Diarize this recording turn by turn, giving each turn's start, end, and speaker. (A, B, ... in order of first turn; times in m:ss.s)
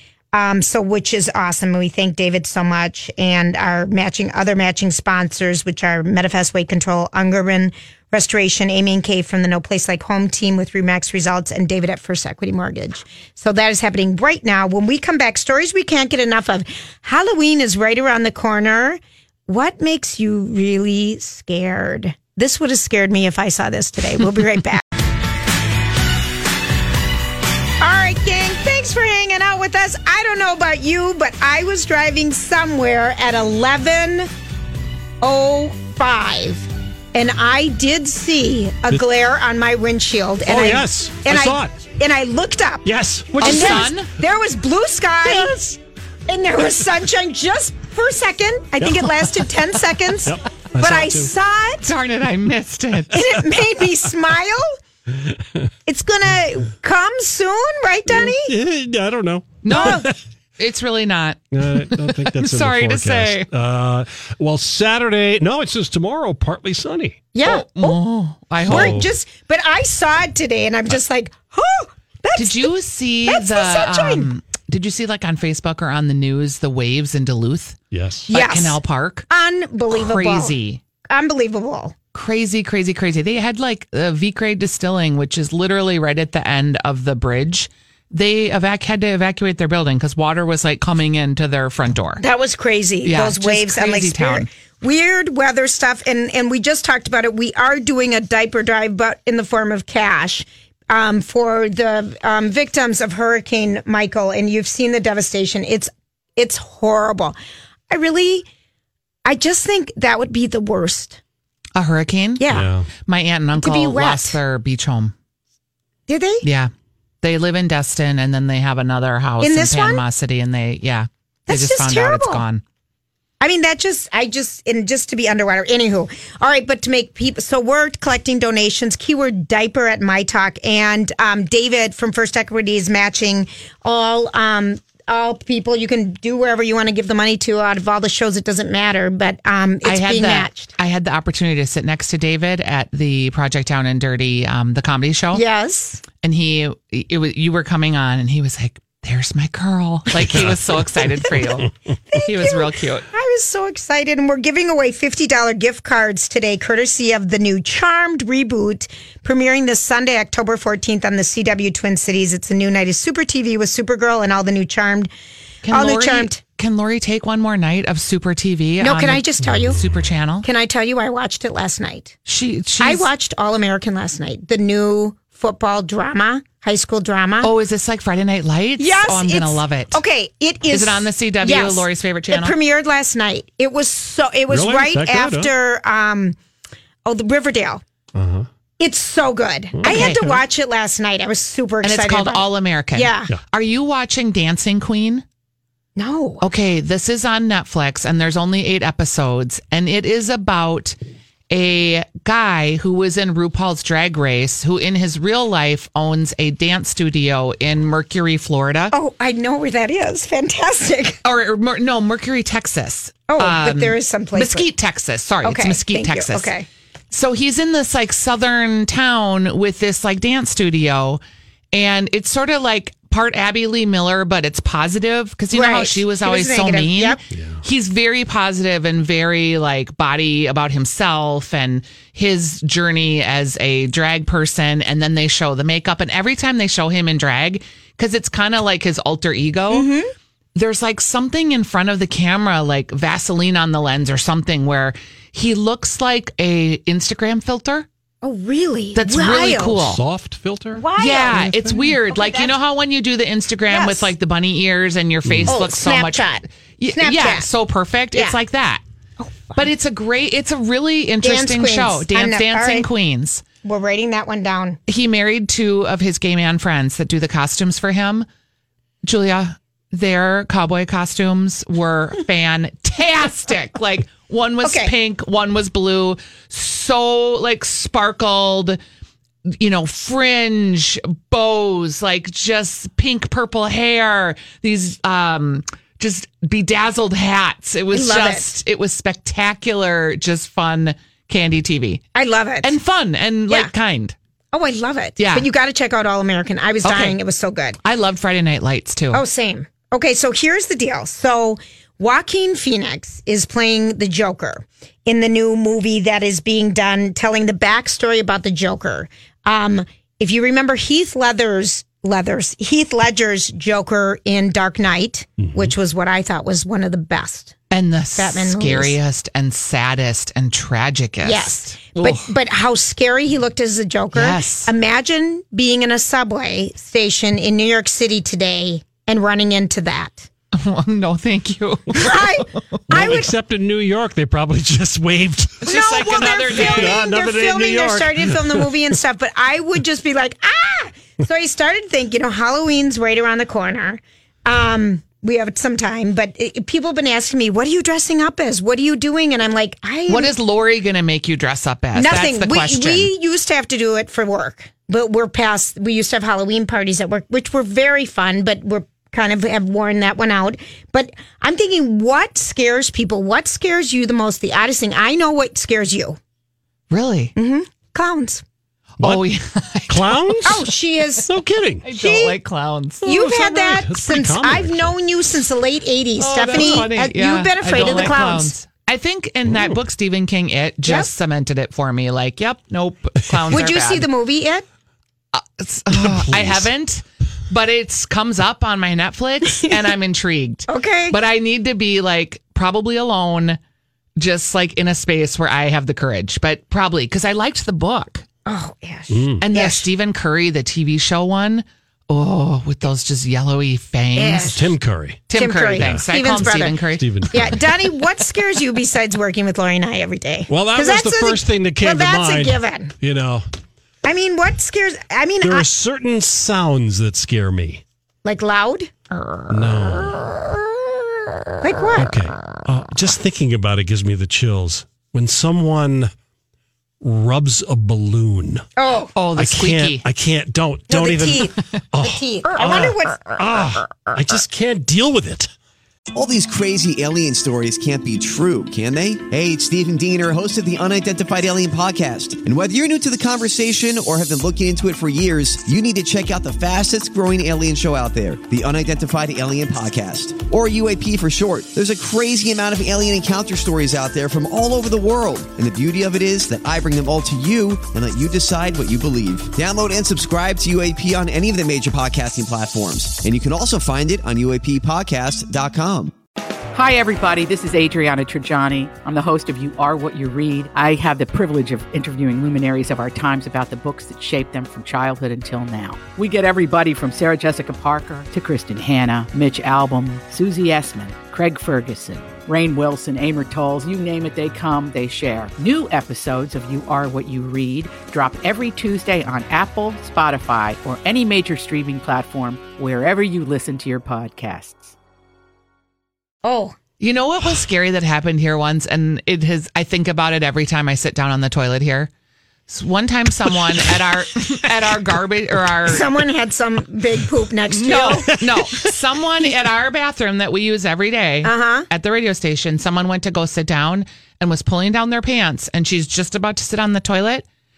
0:00.3-0:24.8 A
0:27.8-0:34.3 A
0:35.2-0:51.9 A
0:40.4-0:41.7 B
0:42.8-0:43.9 B
0:43.4-0:44.1 C
0:48.8-0:49.2 B
0:50.2-0:51.3 B
0:51.8-0:53.2 C
0:53.1-0:54.7 A
0:53.2-0:53.4 B
0:55.1-0:55.7 B
0:55.8-0:58.6 A
0:58.1-1:00.2 B
0:59.6-1:00.1 C
0:59.7-1:00.1 A
1:00.6-1:03.5 C
1:01.5-1:07.2 B
1:07.3-1:08.0 A
1:07.4-1:09.0 C
1:08.6-1:12.7 A
1:08.6-1:09.1 B
1:12.3-1:17.8 C
1:13.2-1:14.3 A
1:17.9-1:18.3 B
1:18.3-1:19.3 C
1:18.3-1:20.5 A
1:19.9-1:20.8 C
1:21.1-1:21.9 A
1:22.1-1:32.2 C
1:32.2-1:47.4 A
1:33.0-1:34.5 C
1:47.9-1:48.5 A
1:49.2-1:51.2 A
1:51.8-1:52.4 C
1:52.4-1:52.7 A
1:52.5-1:52.9 B
1:53.0-1:55.1 C
1:53.6-1:54.4 A
1:56.1-1:56.4 A
1:56.4-1:56.7 C
1:57.2-2:02.6 C
1:59.4-2:00.0 A
2:01.5-2:02.4 A
2:03.4-2:20.7 A
2:19.8-2:25.4 C
2:25.3-2:26.0 A
2:26.2-2:33.0 C
2:30.3-2:30.5 B
2:32.1-2:45.1 A
2:45.6-2:50.5 C
2:45.7-2:46.4 A
2:48.8-2:49.8 A
2:49.4-2:50.1 B
2:50.4-2:52.2 A
2:52.2-2:53.1 C
2:52.8-2:57.5 A
2:57.4-3:00.0 C
2:58.8-3:06.4 A
3:00.7-3:02.5 C
3:04.5-3:05.5 B
3:07.0-3:07.8 A
3:08.1-3:08.5 B
3:08.8-3:13.3 A
3:09.7-3:10.4 B
3:09.8-3:10.2 C
3:11.8-3:15.2 C
3:16.0-3:16.4 A
3:16.4-3:21.0 C
3:21.5-3:28.9 C
3:28.9-3:31.2 A
3:31.2-3:36.5 C
3:33.3-3:34.7 A
3:35.4-3:36.7 A
3:37.1-3:41.2 C
3:41.7-3:59.9 C
3:45.5-3:47.2 A
3:47.3-3:47.6 B
3:59.7-4:00.1 A
4:00.5-4:07.8 C
4:08.2-4:09.8 A
4:08.9-4:10.0 C
4:09.7-4:10.8 B
4:10.7-4:12.6 A
4:11.0-4:16.2 C
4:13.7-4:14.1 A
4:15.2-4:15.6 B
4:15.5-4:17.5 A
4:16.8-4:18.8 C
4:18.1-4:18.4 A
4:19.2-4:19.7 A
4:19.5-4:23.4 C
4:21.2-4:22.9 A
4:23.6-4:24.8 A
4:24.9-4:28.2 C
4:29.0-4:38.8 C
4:34.6-4:34.9 A
4:39.5-4:52.0 C
4:47.9-4:48.6 A
4:52.1-4:52.7 A
4:52.6-4:54.1 C
4:54.5-4:57.8 A
4:55.2-4:55.5 C
4:56.8-4:57.2 C
4:57.8-4:59.2 C
4:59.1-5:17.6 A
5:15.4-5:15.7 B
5:17.7-5:22.3 C
5:18.2-5:19.0 A
5:21.2-5:30.3 A
5:24.1-5:24.7 C
5:30.5-5:32.8 C
5:31.9-5:33.3 A
5:32.9-5:38.7 B
5:35.6-5:37.0 C
5:35.6-5:50.3 A
5:50.1-5:53.1 C
5:51.9-6:06.2 A
6:06.9-6:07.3 C
6:07.4-6:08.4 A
6:09.0-6:10.5 C
6:09.9-6:10.7 B
6:10.4-6:11.3 A
6:11.2-6:11.8 B
6:11.8-6:13.0 C
6:11.9-6:12.4 A
6:13.0-6:14.9 B
6:13.0-6:18.5 A
6:16.2-6:24.1 C
6:19.4-6:19.8 B
6:20.8-6:21.1 A
6:23.5-6:24.6 A
6:25.3-6:33.6 C
6:25.9-6:26.7 B
6:30.7-6:31.2 A
6:34.2-6:38.2 C
6:38.4-6:39.8 A
6:39.1-6:39.4 B
6:39.4-6:44.6 C
6:44.1-6:44.8 A
6:44.5-6:45.2 B
6:45.3-6:47.5 C
6:45.3-6:46.8 A
6:45.7-6:46.4 B
6:46.9-6:47.6 B
6:47.3-6:52.9 A
6:50.5-6:53.4 B
6:54.0-6:55.7 A
6:55.4-6:57.8 B
6:58.2-6:59.0 A
6:59.5-7:00.3 B
7:01.6-7:02.1 A
7:01.9-7:06.1 B
7:07.0-7:08.6 B
7:08.8-7:09.1 A
7:09.1-7:10.0 C
7:09.4-7:15.5 B
7:10.9-7:13.3 A
7:16.1-7:46.1 D
7:46.7-8:14.9 E
8:16.4-8:16.8 A
8:17.0-8:22.1 C
8:22.7-8:26.0 C
8:25.9-8:28.4 A
8:27.7-8:37.4 C
8:31.4-8:31.9 A